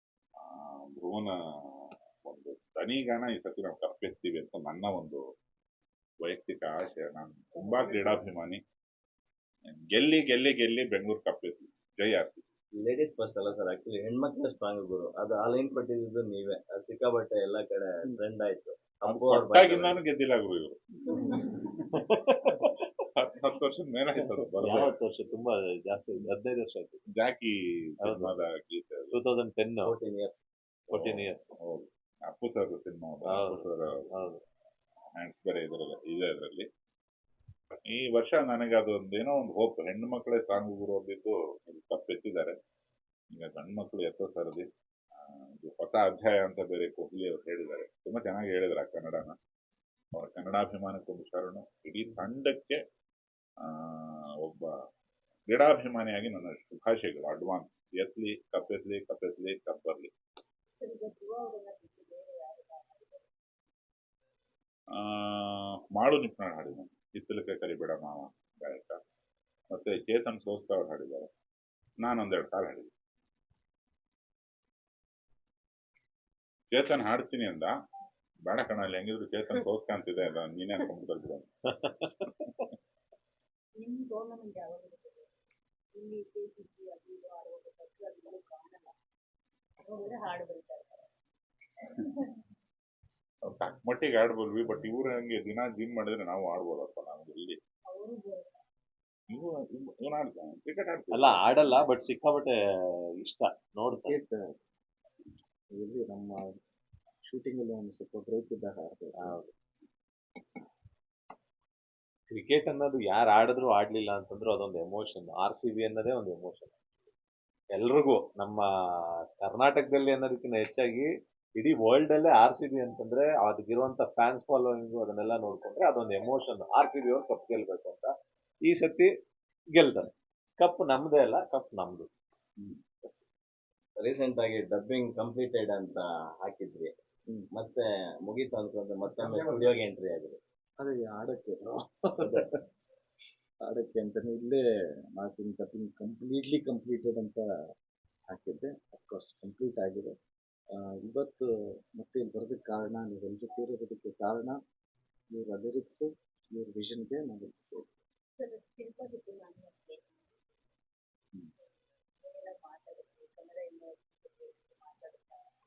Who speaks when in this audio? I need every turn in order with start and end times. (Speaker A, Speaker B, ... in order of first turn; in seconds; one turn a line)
Speaker A: 0.4-1.3
Speaker A: 2.2-5.2
Speaker A: 6.2-8.6
Speaker A: 9.7-12.4
Speaker B: 12.8-20.0
Speaker A: 19.1-20.8
Speaker C: 21.9-22.8
Speaker A: 23.2-24.9
Speaker C: 24.6-27.0
Speaker A: 27.2-29.2
Speaker C: 28.0-28.3
Speaker C: 29.1-29.9
Speaker B: 29.8-30.4
Speaker C: 30.9-31.5
Speaker A: 30.9-34.0
Speaker C: 33.3-34.4
Speaker A: 35.2-36.7
Speaker A: 37.9-42.5
Speaker A: 43.3-44.6
Speaker A: 45.5-49.4
Speaker A: 50.1-52.8
Speaker A: 53.6-54.6
Speaker A: 55.5-60.1
Speaker D: 60.8-63.3
Speaker A: 65.0-69.0
Speaker A: 69.7-71.3
Speaker A: 72.0-72.9
Speaker A: 76.7-77.7
Speaker A: 78.5-81.5
Speaker C: 81.8-82.7
Speaker D: 83.8-85.3
Speaker D: 86.0-89.0
Speaker D: 89.8-91.1
Speaker D: 91.9-92.4
Speaker A: 93.5-97.6
Speaker D: 97.9-98.6
Speaker A: 99.3-101.4
Speaker C: 101.1-104.2
Speaker E: 104.0-104.5
Speaker E: 105.7-106.4
Speaker E: 107.2-109.4
Speaker C: 109.2-109.5
Speaker C: 112.3-116.8
Speaker C: 117.8-118.6
Speaker C: 119.4-128.1
Speaker C: 128.7-129.1
Speaker C: 129.7-132.1
Speaker B: 134.0-136.9
Speaker B: 137.5-140.4
Speaker E: 139.3-139.6
Speaker E: 140.8-142.5
Speaker E: 143.7-144.6
Speaker E: 145.2-147.4
Speaker E: 148.3-150.1
Speaker E: 150.7-154.6
Speaker E: 155.3-158.0
Speaker D: 158.4-160.4
Speaker D: 162.2-165.5